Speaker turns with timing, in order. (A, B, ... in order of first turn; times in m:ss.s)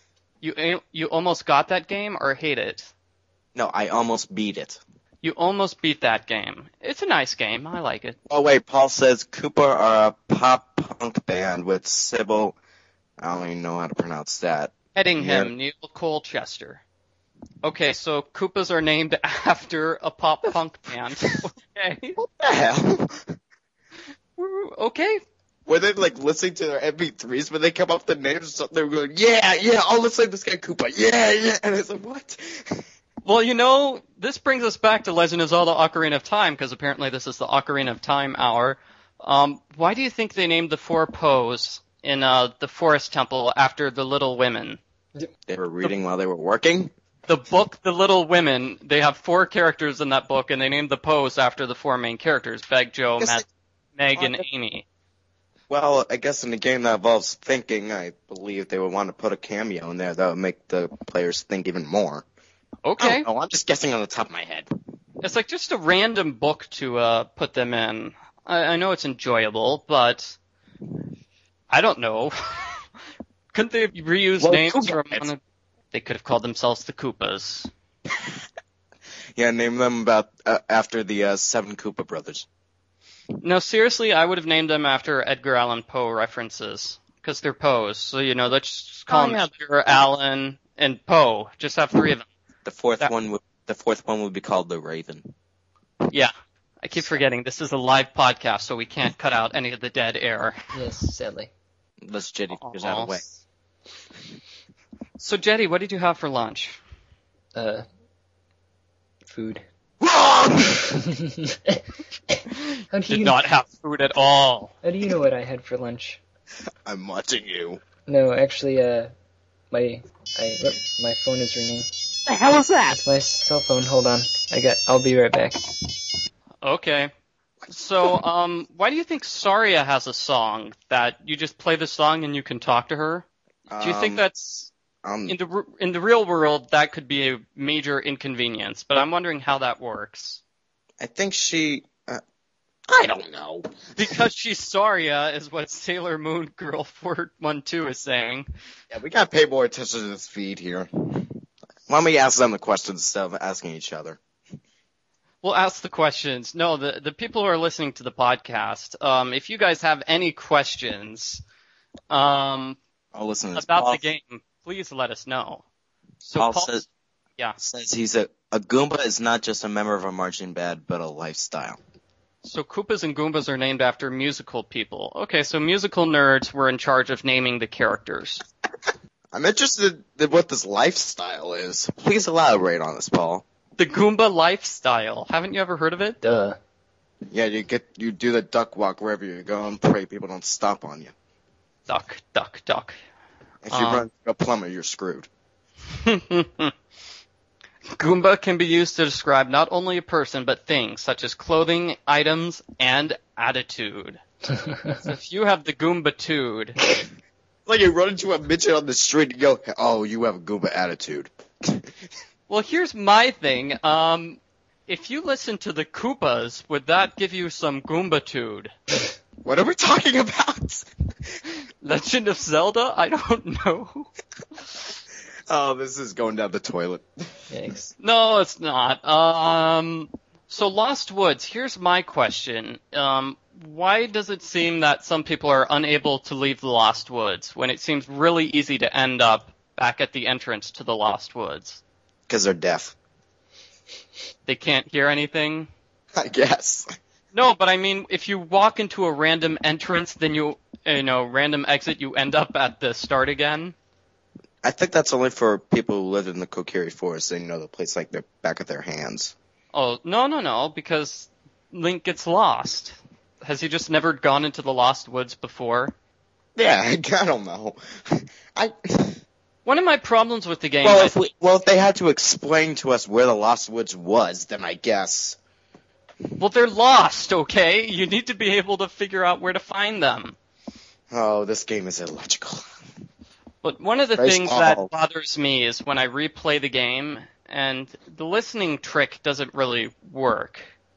0:00.4-0:02.9 A
0:03.5-0:04.8 B
0:05.2-0:08.2 A
0:08.3-0:12.6 B
0:13.2-0:15.5 B
0:14.9-0:16.8 A
0:17.6-0:22.2 A
0:22.2-0:23.3 B
0:24.4-0:25.2 A
0:25.6-0:32.8 B
0:33.2-0:44.8 A
0:45.5-0:46.9 B
0:47.3-0:54.8 A
0:53.2-0:53.4 B
0:54.2-0:54.4 B
0:55.7-1:02.2 B
1:02.8-1:03.3 A
1:03.0-1:04.7 B
1:05.2-1:10.4 A
1:11.7-1:12.8 A
1:13.5-1:15.4 A
1:14.4-1:15.3 B
1:15.9-1:17.7 A
1:19.4-1:22.5 B
1:23.4-1:32.3 A
1:29.1-1:30.0 B
1:32.6-1:35.3 B
1:36.1-1:40.6 A
1:36.9-1:37.2 B
1:40.7-1:41.5 C
1:42.0-1:43.2 B
1:42.5-1:43.3 A
1:45.2-1:46.8 A
1:47.5-1:47.8 C
1:49.3-1:49.6 C
1:50.0-1:50.8 B
1:50.8-1:51.8 C
1:52.3-1:53.4 C
1:52.5-1:54.7 A
1:54.8-1:56.2 C
1:56.8-1:57.8 B
1:58.1-1:59.1 C
1:59.7-2:01.9 C
2:02.3-2:03.0 B
2:02.9-2:05.6 C
2:06.6-2:07.1 A
2:07.7-2:13.2 A
2:13.7-2:14.2 B
2:13.8-2:14.7 A
2:15.0-2:15.3 B
2:15.3-2:20.4 A
2:21.0-2:22.2 B
2:22.9-2:24.2 B
2:24.0-2:28.5 A
2:28.9-2:34.2 B
2:35.4-2:41.4 A
2:42.1-2:42.8 A
2:43.1-2:44.0 B
2:43.6-2:45.6 A
2:46.2-2:46.8 A
2:46.4-2:46.8 B
2:47.6-2:51.8 B
2:52.4-2:58.4 A
2:59.3-3:03.4 B
3:03.8-3:06.2 A
3:06.2-3:06.6 C
3:07.3-3:11.1 B
3:11.9-3:13.0 A
3:13.6-3:15.3 B
3:13.7-3:14.1 A
3:15.9-3:16.7 A
3:17.8-3:24.2 A
3:25.0-3:26.8 A
3:27.6-3:31.8 B
3:32.5-3:38.7 A
3:39.4-3:40.8 B
3:41.8-3:44.1 A
3:45.5-3:47.0 B
3:47.5-3:47.9 C
3:48.0-4:01.8 A
4:02.3-4:02.9 B
4:04.4-4:05.7 A
4:06.2-4:06.9 B
4:07.3-4:13.7 A
4:14.6-4:19.3 B
4:19.7-4:25.9 A
4:26.6-4:29.2 B
4:29.6-4:31.1 A
4:30.8-4:35.4 B
4:36.4-4:40.4 A
4:41.1-4:42.6 B
4:43.6-4:50.7 A
4:44.2-4:44.9 B